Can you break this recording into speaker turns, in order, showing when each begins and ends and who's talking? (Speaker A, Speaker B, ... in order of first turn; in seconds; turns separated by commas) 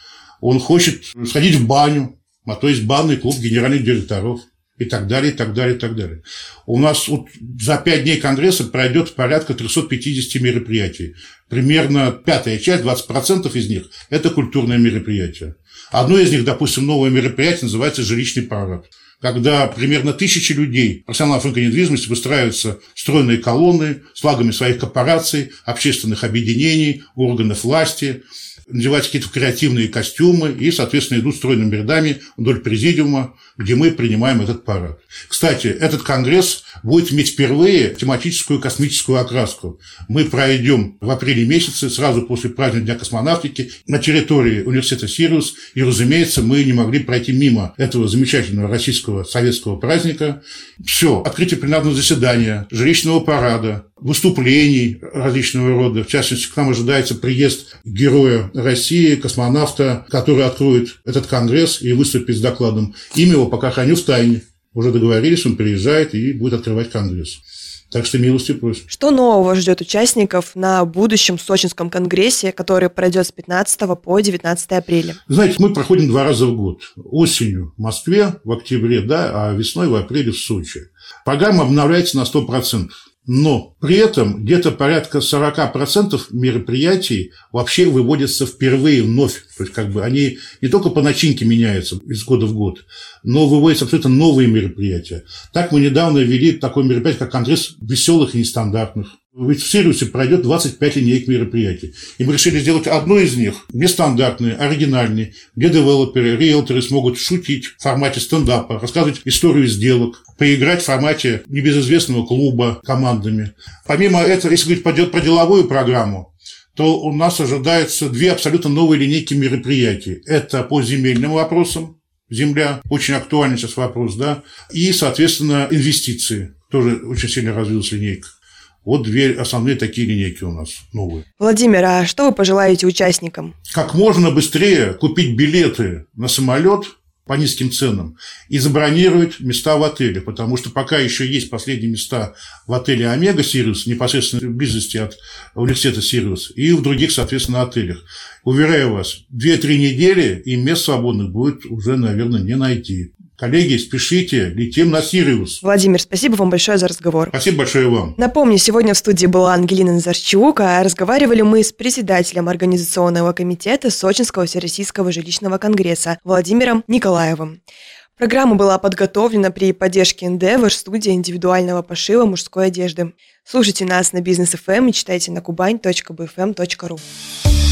Speaker A: 0.4-67.4, Speaker A: 67.9-68.8, Speaker B: 68.9-75.2, Speaker A: 75.3-128.3, Speaker A: 128.8-131.2, Speaker B: 131.4-133.6, Speaker A: 133.7-155.6, Speaker B: 155.6-157.3, Speaker A: 157.3-158.2, Speaker B: 158.2-167.6, Speaker B: 168.2-177.1